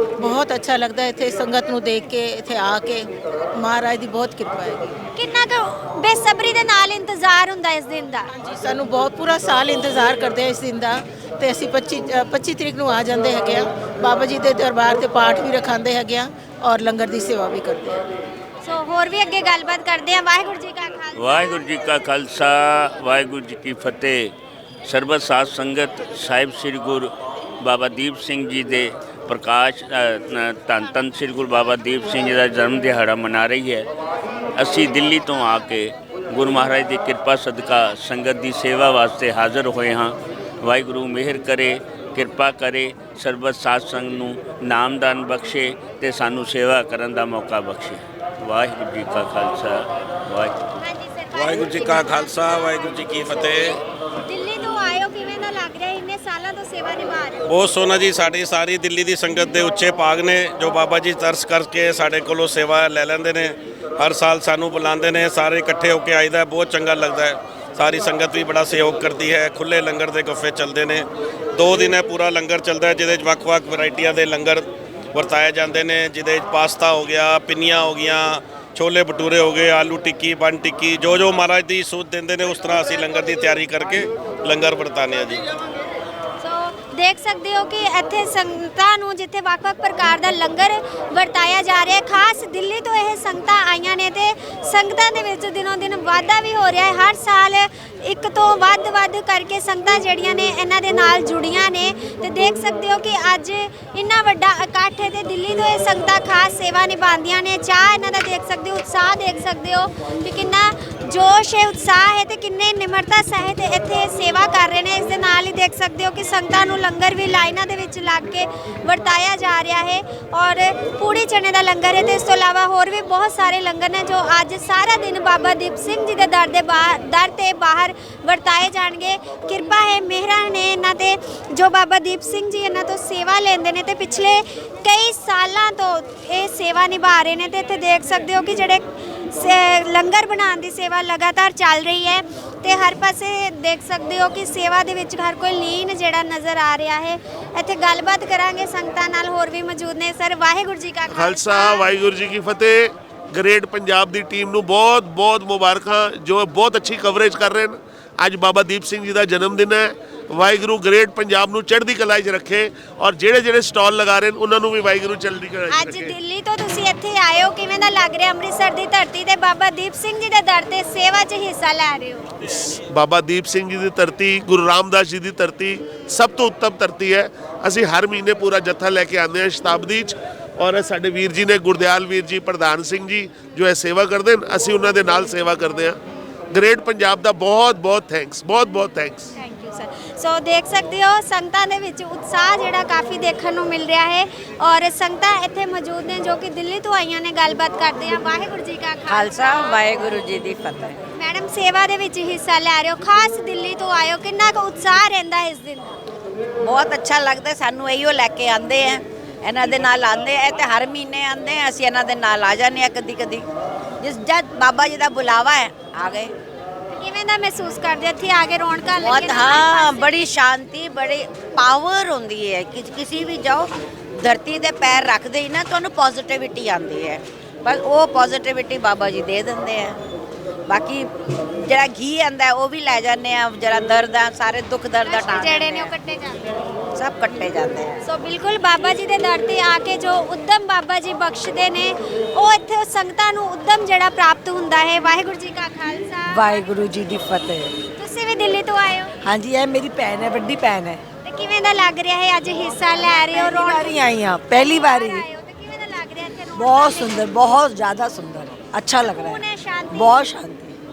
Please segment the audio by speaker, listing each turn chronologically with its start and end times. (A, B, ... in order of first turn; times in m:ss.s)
0:00.2-0:05.0 A
0:05.2-0:08.3 B
0:08.3-0:18.0 A
0:18.6-0:21.6 B
0:21.2-0:24.3 C
0:24.8-0:33.9 C
0:34.6-0:50.6 C
0:50.8-0:53.7 B
0:51.3-0:53.8 D
0:54.2-0:57.5 B
0:57.5-1:25.4 D
1:26.4-2:31.9 B
2:31.1-2:46.1 E
2:45.7-2:52.3 B
2:52.4-3:06.0 E
3:06.5-3:09.3 E
3:09.4-3:19.8 B
3:19.1-3:21.0 F
3:21.2-3:26.0 B
3:26.6-3:33.4 F
3:34.0-3:36.3 F
3:36.9-3:40.3 B
3:39.0-3:50.0 F
3:50.7-3:55.9 F
3:55.0-3:56.5 B
3:57.0-3:58.0 F
3:58.0-4:06.6 B
4:06.3-4:07.7 G
4:08.0-4:09.1 B
4:09.2-4:11.0 G
4:11.2-4:17.3 B
4:13.0-4:15.2 G
4:16.6-4:20.8 G
4:19.0-4:20.3 B